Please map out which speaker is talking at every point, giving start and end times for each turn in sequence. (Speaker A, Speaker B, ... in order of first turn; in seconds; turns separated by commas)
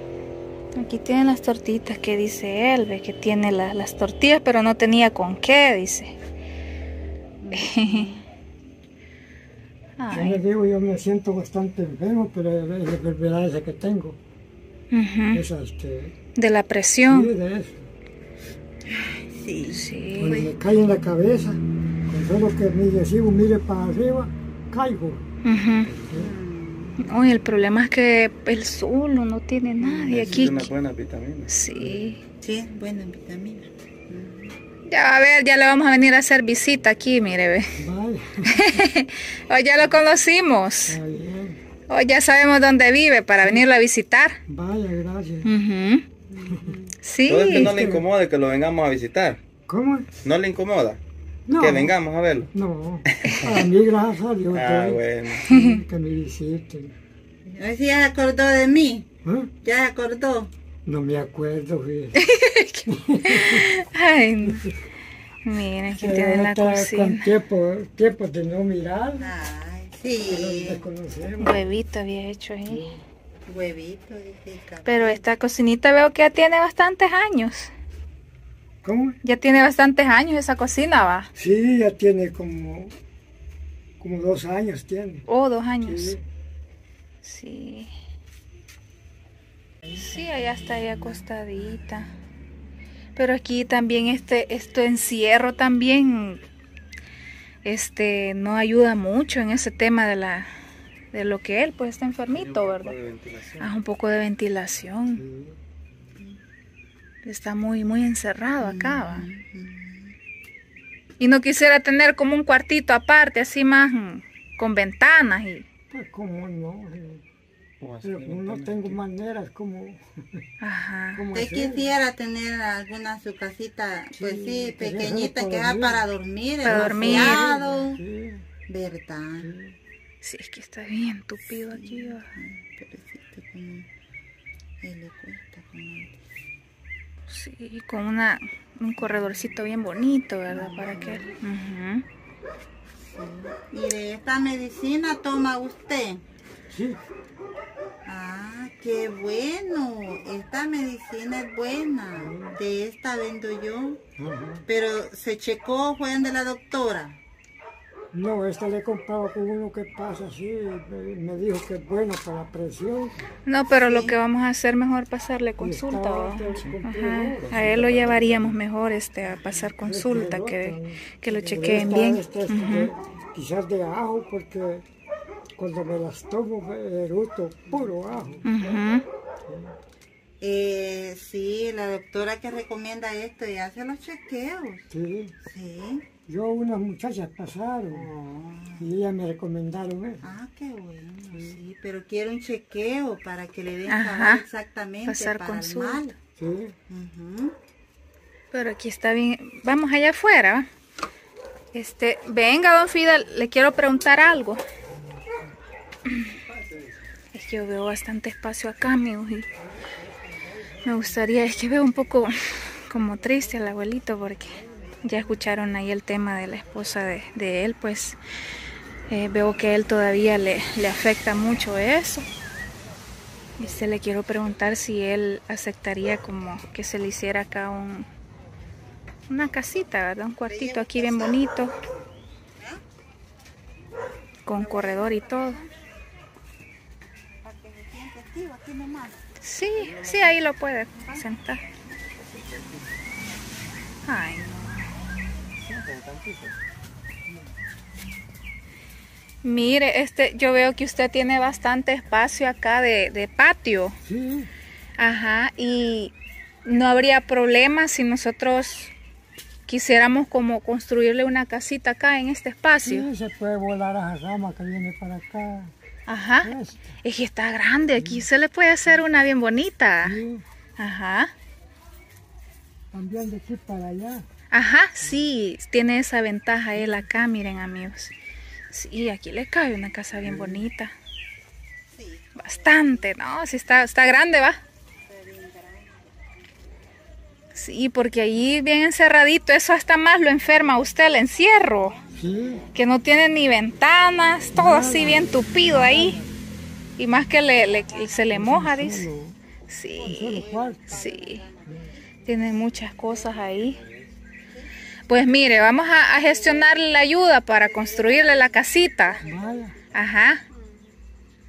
Speaker A: 0.8-6.1, Speaker B: 7.4-8.2, Speaker A: 7.5-8.1, Speaker A: 10.0-10.4, Speaker C: 10.1-14.2, Speaker A: 14.9-15.4, Speaker C: 15.3-16.1, Speaker A: 16.4-17.3, Speaker C: 17.1-17.9, Speaker B: 19.1-19.9, Speaker A: 19.7-20.5, Speaker C: 20.2-25.2, Speaker A: 25.4-25.9, Speaker C: 25.9-26.3, Speaker B: 26.1-27.1, Speaker A: 27.0-30.7, Speaker D: 29.8-31.5, Speaker A: 31.5-32.2, Speaker B: 32.4-34.6, Speaker A: 34.9-37.7, Speaker C: 37.8-38.8, Speaker A: 38.5-41.0, Speaker C: 40.9-41.6, Speaker A: 41.9-44.4, Speaker C: 44.5-45.5, Speaker A: 45.4-46.0, Speaker B: 46.4-46.9, Speaker C: 46.5-46.8, Speaker A: 47.0-47.7, Speaker D: 47.2-49.4, Speaker C: 47.4-48.1, Speaker C: 49.7-50.1, Speaker D: 50.2-51.0, Speaker C: 51.5-57.0, Speaker D: 51.6-52.5, Speaker D: 53.1-53.6, Speaker D: 54.5-55.4, Speaker A: 55.5-55.8, Speaker B: 57.5-59.1, Speaker C: 59.2-59.5, Speaker B: 59.6-60.5, Speaker C: 60.9-62.2, Speaker A: 62.2-64.7, Speaker C: 62.9-63.7, Speaker C: 64.4-64.7, Speaker A: 65.4-67.3, Speaker C: 66.0-69.3, Speaker B: 69.2-70.8, Speaker C: 70.2-71.7, Speaker A: 71.4-72.9, Speaker C: 72.7-73.0, Speaker B: 73.5-75.2, Speaker A: 74.9-77.7, Speaker C: 78.8-79.2, Speaker A: 79.2-81.3, Speaker C: 81.4-82.9, Speaker C: 84.0-85.2, Speaker A: 85.3-86.2, Speaker C: 85.8-86.2, Speaker A: 87.2-87.9, Speaker A: 90.0-92.1, Speaker A: 93.2-96.4, Speaker A: 97.6-100.5, Speaker A: 101.1-102.9, Speaker D: 102.3-103.7, Speaker A: 103.6-105.2, Speaker C: 105.1-105.6, Speaker A: 107.2-109.2, Speaker B: 108.6-110.2, Speaker A: 111.2-115.7, Speaker C: 115.9-117.2, Speaker D: 117.8-118.8, Speaker C: 118.0-120.4, Speaker A: 120.6-121.2, Speaker C: 121.1-121.9, Speaker B: 121.3-128.0, Speaker C: 124.2-126.1, Speaker A: 126.6-127.5, Speaker C: 126.6-128.4, Speaker B: 128.7-129.5, Speaker C: 129.4-129.8, Speaker A: 130.2-132.3, Speaker B: 131.7-133.9, Speaker B: 134.8-136.2, Speaker A: 137.3-142.1, Speaker B: 140.5-141.4, Speaker B: 143.1-146.2, Speaker C: 146.7-147.0, Speaker B: 148.1-154.0, Speaker C: 152.2-152.6, Speaker C: 154.2-154.6, Speaker B: 154.7-157.2, Speaker C: 158.1-163.2, Speaker A: 163.5-172.9, Speaker B: 163.7-164.2, Speaker C: 165.6-168.6, Speaker C: 169.8-174.8, Speaker C: 175.6-178.5, Speaker A: 178.4-179.0, Speaker C: 179.5-179.7, Speaker B: 180.4-184.9, Speaker C: 184.9-185.3, Speaker B: 185.4-186.1, Speaker C: 186.3-188.1, Speaker B: 187.9-188.9, Speaker C: 188.8-190.2, Speaker B: 190.2-196.2, Speaker C: 191.3-191.6, Speaker A: 193.9-194.4, Speaker A: 195.1-196.0, Speaker C: 196.4-196.7, Speaker B: 196.9-197.6, Speaker A: 198.5-200.7, Speaker A: 201.7-204.6, Speaker A: 207.3-209.5, Speaker A: 210.8-212.3, Speaker A: 212.9-218.2, Speaker A: 219.1-222.3, Speaker A: 223.6-228.1, Speaker A: 229.3-231.7, Speaker B: 230.5-231.7, Speaker B: 232.6-232.8, Speaker A: 234.4-235.6, Speaker B: 234.6-235.7, Speaker B: 237.4-239.2, Speaker A: 239.4-241.6, Speaker D: 242.3-242.7, Speaker A: 244.1-244.9, Speaker D: 245.7-246.5, Speaker A: 249.4-253.9, Speaker C: 254.0-254.5, Speaker A: 255.0-256.1, Speaker A: 256.6-258.9, Speaker A: 259.7-263.1, Speaker C: 262.9-265.7, Speaker A: 266.1-266.5, Speaker C: 266.4-267.0, Speaker A: 267.0-270.2, Speaker C: 268.0-268.3, Speaker C: 270.0-270.4, Speaker A: 270.8-271.3, Speaker C: 272.9-274.3, Speaker A: 274.5-278.1, Speaker A: 278.7-280.9, Speaker C: 280.2-280.6, Speaker B: 281.9-283.0, Speaker A: 282.4-284.6, Speaker B: 285.0-286.4, Speaker A: 287.6-292.0, Speaker B: 290.7-292.1, Speaker C: 292.1-292.6, Speaker A: 292.7-296.2, Speaker C: 294.5-296.3, Speaker A: 297.0-299.1, Speaker B: 297.5-298.4, Speaker C: 298.3-299.4, Speaker A: 299.7-301.4, Speaker C: 300.0-301.0, Speaker B: 300.1-303.9, Speaker C: 301.7-301.9, Speaker A: 302.2-303.8, Speaker A: 305.1-309.2, Speaker B: 305.4-309.8, Speaker C: 309.2-309.7, Speaker A: 309.9-310.4, Speaker B: 310.6-310.8